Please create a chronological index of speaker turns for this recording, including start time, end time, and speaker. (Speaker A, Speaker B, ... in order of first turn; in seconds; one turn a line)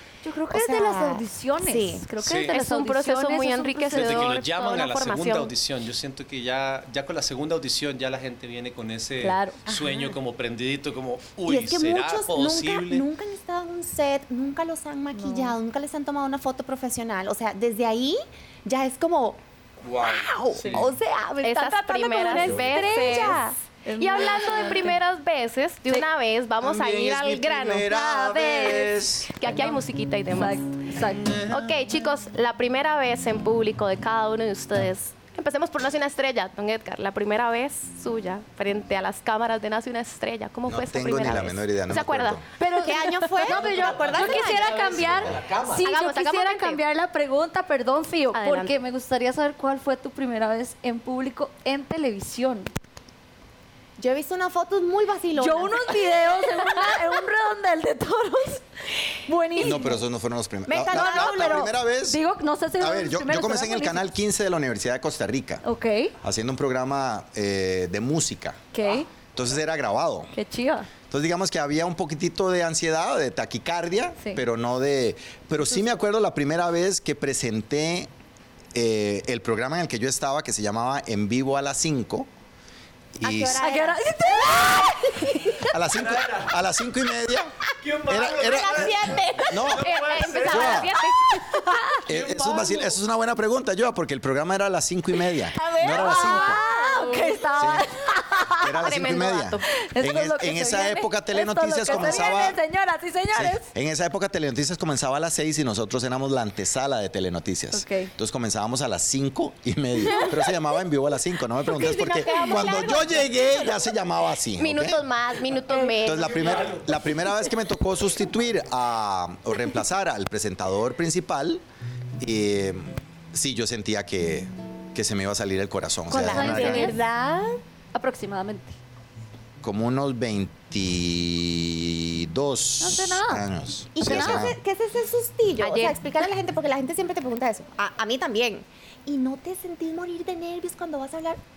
Speaker A: 0.2-4.3
Speaker B: 0.5-2.0
Speaker C: 2.2-2.5
Speaker D: 2.4-5.5
Speaker C: 3.9-13.1
Speaker A: 9.2-9.6
Speaker B: 9.7-10.2
Speaker B: 11.5-19.4
Speaker A: 15.1-15.6
Speaker C: 19.8-20.9
Speaker B: 20.0-23.5
Speaker D: 21.4-30.6
Speaker E: 22.4-23.0
Speaker A: 23.0-25.0
Speaker E: 26.6-29.6
Speaker A: 30.3-31.4
Speaker D: 31.5-42.4
Speaker E: 40.7-42.4
Speaker A: 42.6-52.7
Speaker B: 42.8-45.3
Speaker C: 43.4-45.9
Speaker D: 45.8-46.8
Speaker D: 48.3-48.7
Speaker B: 54.0-55.9
Speaker A: 55.4-58.6
Speaker A: 59.1-60.0
Speaker E: 59.6-62.2
Speaker B: 60.6-61.7
Speaker A: 60.9-64.0
Speaker E: 62.8-65.6
Speaker A: 65.6-66.1
Speaker E: 66.2-68.6
Speaker A: 68.7-69.1
Speaker E: 69.3-70.3
Speaker A: 70.3-70.9
Speaker E: 71.1-78.1
Speaker E: 78.7-82.3
Speaker E: 83.1-83.6
Speaker B: 83.2-85.6
Speaker A: 83.6-85.4
Speaker E: 85.7-88.9
Speaker C: 85.9-86.5
Speaker C: 87.8-90.9
Speaker B: 88.5-89.8
Speaker E: 89.5-89.8
Speaker D: 89.8-91.5
Speaker E: 90.4-90.9
Speaker A: 91.5-91.9
Speaker C: 92.0-93.0
Speaker E: 92.1-96.6
Speaker A: 95.6-98.9
Speaker B: 95.7-96.2
Speaker D: 96.5-97.4
Speaker E: 97.6-97.9
Speaker E: 98.5-102.6
Speaker D: 98.8-99.7
Speaker A: 99.8-103.7
Speaker B: 101.9-102.4
Speaker E: 103.3-115.0
Speaker A: 107.7-108.1
Speaker B: 111.6-113.9
Speaker D: 114.6-116.8
Speaker A: 115.7-116.0
Speaker E: 116.0-121.6
Speaker C: 116.3-117.0
Speaker E: 122.2-126.9
Speaker B: 126.1-127.6
Speaker A: 126.1-127.0
Speaker A: 127.9-128.8
Speaker E: 129.6-134.6
Speaker A: 132.8-133.4
Speaker B: 133.9-141.4
Speaker A: 134.1-134.3
Speaker D: 135.6-136.0